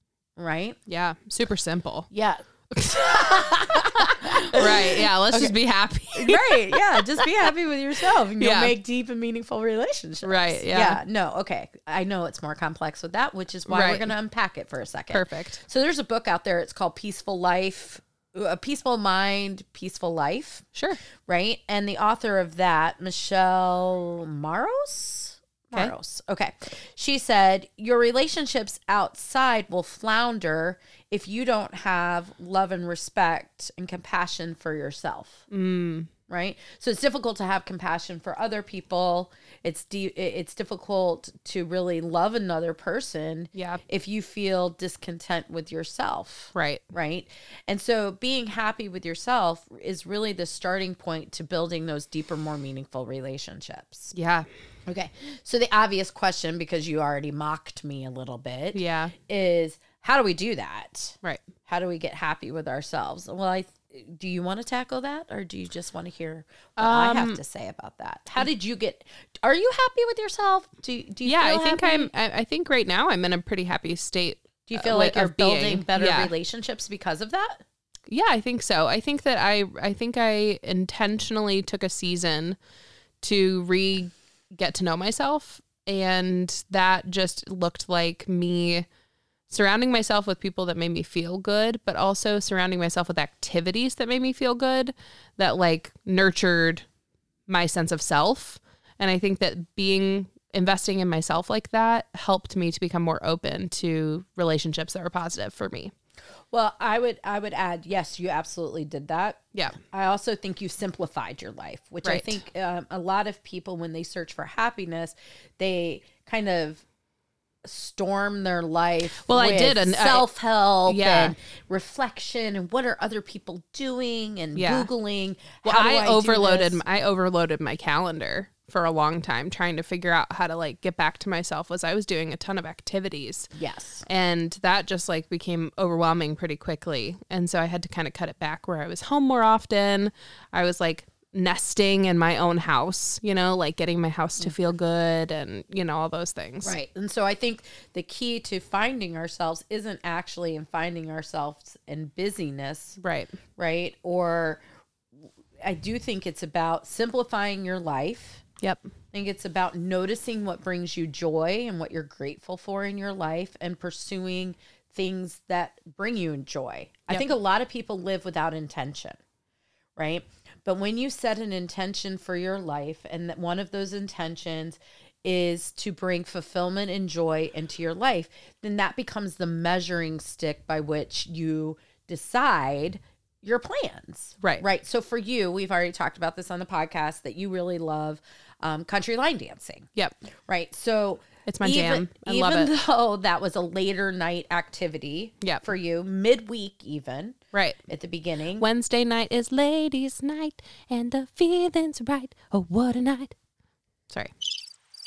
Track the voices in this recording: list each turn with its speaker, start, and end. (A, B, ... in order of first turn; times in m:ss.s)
0:00.4-0:00.8 A
0:00.9-0:02.1 B
0:02.1-0:05.5 A
0:02.8-0:07.3 B
0:06.1-0:20.6 A
0:08.4-0:08.7 B
0:10.2-0:11.0 B
0:13.7-0:14.1 B
0:15.1-0:15.6 B
0:21.2-0:35.4 A
0:35.5-0:36.1 B
0:36.3-0:54.1 A
0:43.5-0:43.8 B
0:46.5-0:46.8 B
0:54.1-0:54.5 B
0:54.9-1:12.1 A
0:58.7-0:59.1 B
1:06.8-1:07.4 B
1:11.2-1:16.3 B
1:14.6-1:17.6 A
1:18.1-1:22.6 B
1:23.2-1:28.9 B
1:29.5-1:36.8 B
1:37.5-1:45.9 B
1:46.5-1:56.8 A
1:52.0-1:52.4 B
1:57.6-2:06.8 A
1:59.2-2:00.3 B
2:00.8-2:01.3 B
2:04.5-2:04.9 B
2:05.6-2:13.5 B
2:13.5-2:14.1 A
2:14.0-2:26.7 B
2:26.6-2:33.0 A
2:33.0-2:33.3 B
2:33.6-2:34.6 A
2:35.6-2:38.4 A
2:38.6-2:38.9 B
2:39.1-2:49.2 A
2:50.0-3:09.9 A
3:10.5-3:18.6 A
3:11.4-3:12.7 B
3:15.4-3:15.6 B
3:17.5-3:17.8 B
3:18.6-3:23.3 B